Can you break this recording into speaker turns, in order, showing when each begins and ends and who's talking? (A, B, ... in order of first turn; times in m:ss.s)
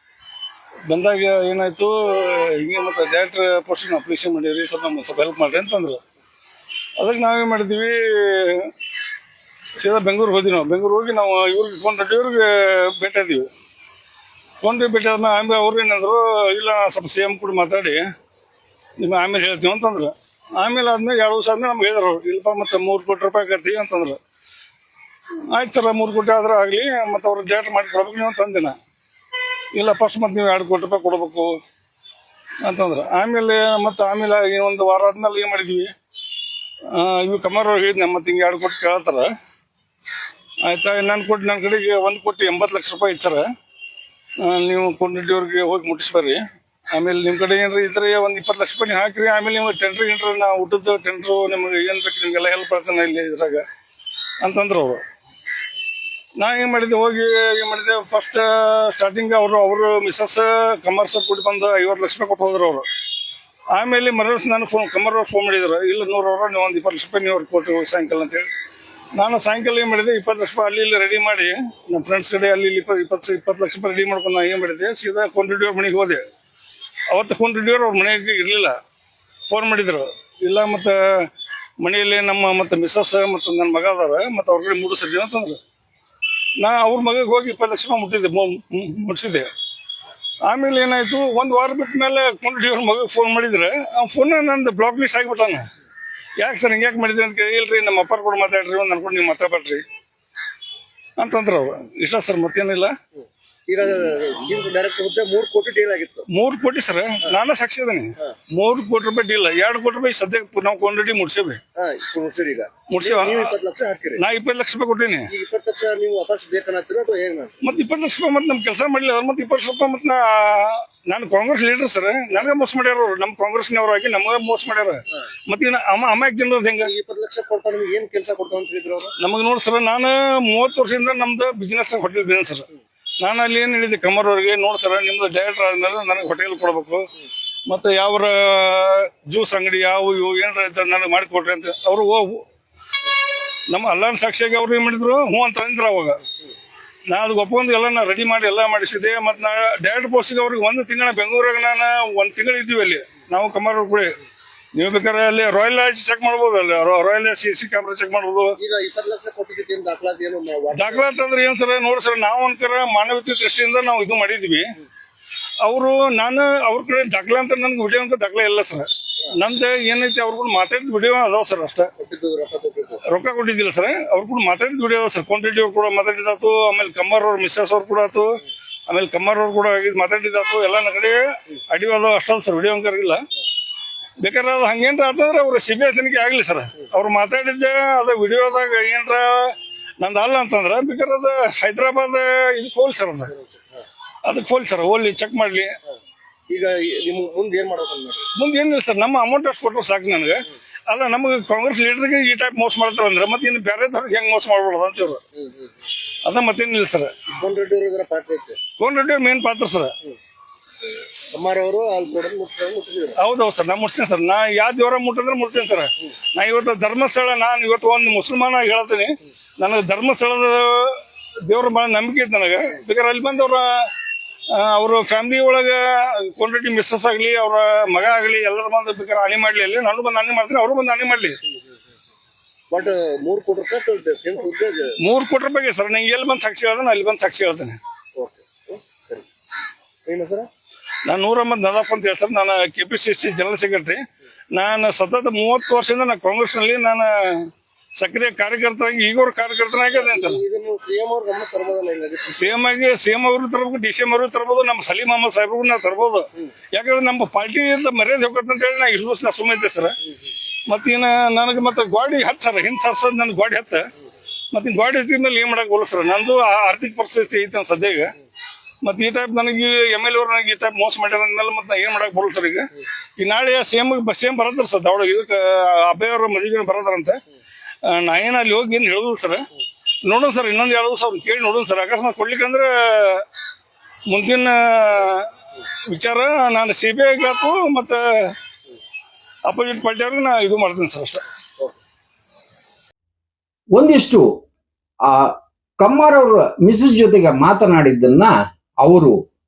0:00.9-0:06.0 A
0:07.0-0:08.7 A
0:09.8-0:13.5 A
0:14.6-0:18.0 A
0:19.0-0:24.2 A
0:25.5-0:28.8 A
0:29.7-0:31.5 A
0:32.6-0:35.9 A
0:36.9-0:39.3 A
0:40.6-0:43.4 A
0:44.4-0:46.4 A
0:46.9-0:53.6 A
0:54.4-0:55.0 A
0:56.4-1:02.8 A
1:03.7-1:08.5 A
1:09.2-1:16.2 A
1:17.1-1:18.7 A
1:19.5-1:21.3 A
1:21.8-1:25.6 A
1:26.6-1:29.5 A
1:30.5-1:35.6 A
1:36.4-1:39.8 A
1:41.2-1:42.9 A
1:43.7-1:46.2 B
1:46.3-1:51.6 A
1:51.8-1:54.2 B
1:52.9-1:53.5 A
1:54.2-1:55.2 A
1:55.3-1:57.5 B
1:57.6-2:06.9 A
2:06.8-2:09.1 B
2:09.2-2:12.6 A
2:13.2-2:17.0 A
2:17.7-2:22.4 A
2:23.7-2:26.2 A
2:27.1-2:34.1 A
2:34.8-2:38.5 A
2:38.6-2:41.0 B
2:40.7-2:44.7 A
2:45.6-2:48.8 A
2:49.4-2:51.9 A
2:52.0-2:53.0 B
2:53.1-2:58.3 A
2:58.9-3:03.2 A
3:04.2-3:13.3 A
3:13.3-3:13.8 B
3:14.2-3:15.7 A
3:16.5-3:18.3 B
3:18.4-3:25.2 A
3:25.3-3:25.8 B
3:26.2-3:27.1 A
3:27.4-3:28.6 B
3:28.8-3:29.9 A
3:31.3-3:33.2 B
3:33.2-3:43.8 A
3:44.5-3:51.4 A
3:52.7-3:54.9 B
3:55.0-3:57.8 A
3:58.2-3:59.2 B
4:00.1-4:00.5 B
4:01.1-4:04.0 A
4:04.5-4:10.4 A
4:09.9-4:12.5 B
4:12.3-4:19.9 A
4:20.7-4:23.8 A
4:24.5-4:28.1 A
4:28.8-4:32.7 A
4:33.2-4:37.2 A
4:37.9-4:39.4 A
4:40.1-4:43.2 A
4:44.1-4:45.3 A
4:45.9-4:48.3 A
4:49.5-4:51.2 A
4:53.7-4:54.3 C
4:55.0-4:59.2 C